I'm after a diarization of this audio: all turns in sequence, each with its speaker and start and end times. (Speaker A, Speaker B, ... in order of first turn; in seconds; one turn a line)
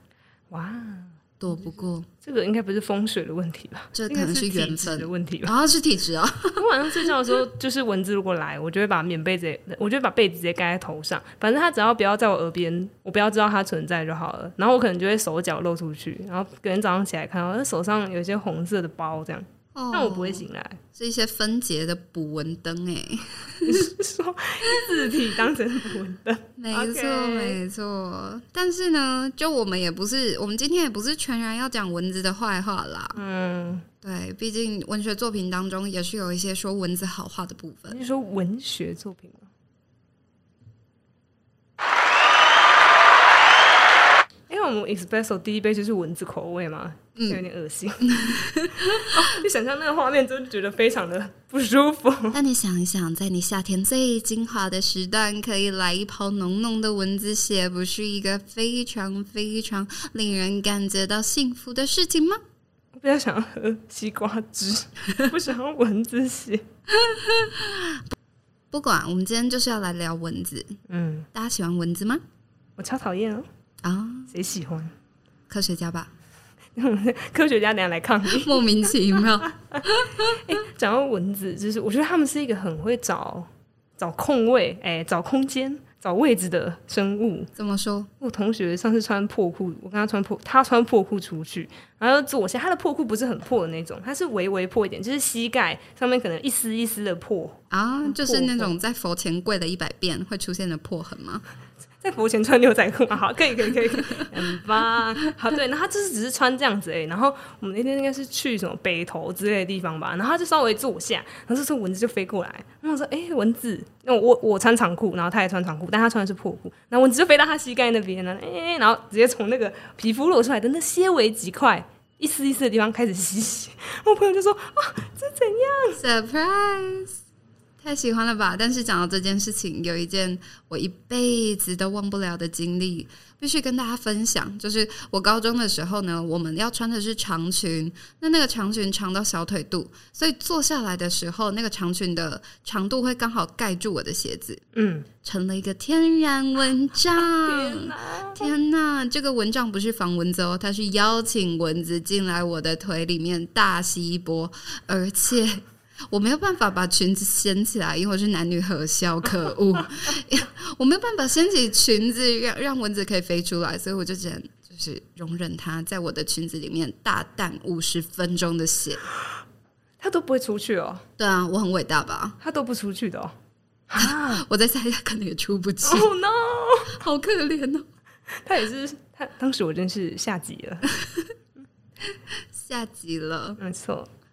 Speaker A: 0.5-1.2
Speaker B: 1.4-2.1
Speaker A: 2.2-5.5
Speaker B: 4.0-7.1
Speaker A: 6.6-20.8
Speaker B: 19.8-20.4
Speaker B: 20.9-23.9
Speaker A: 23.6-27.6
Speaker B: 26.6-33.2
Speaker A: 33.1-33.9
Speaker B: 34.0-38.0
Speaker A: 37.9-39.5
Speaker A: 44.5-52.4
Speaker B: 47.2-47.4
Speaker B: 48.0-49.2
Speaker B: 52.3-62.4
Speaker A: 63.0-66.7
Speaker B: 66.9-68.1
Speaker B: 68.7-70.8
Speaker A: 70.9-71.3
Speaker B: 71.3-72.2
Speaker A: 72.8-73.5
Speaker B: 73.8-74.3
Speaker A: 74.3-74.9
Speaker B: 75.5-76.1
Speaker A: 76.8-78.6
Speaker B: 78.3-80.4
Speaker A: 79.4-87.5
Speaker B: 87.6-88.1
Speaker A: 88.2-98.8
Speaker B: 97.7-101.4
Speaker A: 102.0-126.0
Speaker B: 126.0-127.2
Speaker B: 127.8-144.6
Speaker A: 144.8-145.1
Speaker B: 145.2-169.1
Speaker A: 147.2-148.5
Speaker A: 170.0-171.1
Speaker B: 171.2-172.4
Speaker A: 172.4-173.3
Speaker A: 173.9-174.4
Speaker B: 174.0-176.1
Speaker A: 175.8-177.0
Speaker B: 176.9-177.9
Speaker A: 178.4-181.0
Speaker B: 182.5-183.6
Speaker A: 183.6-184.1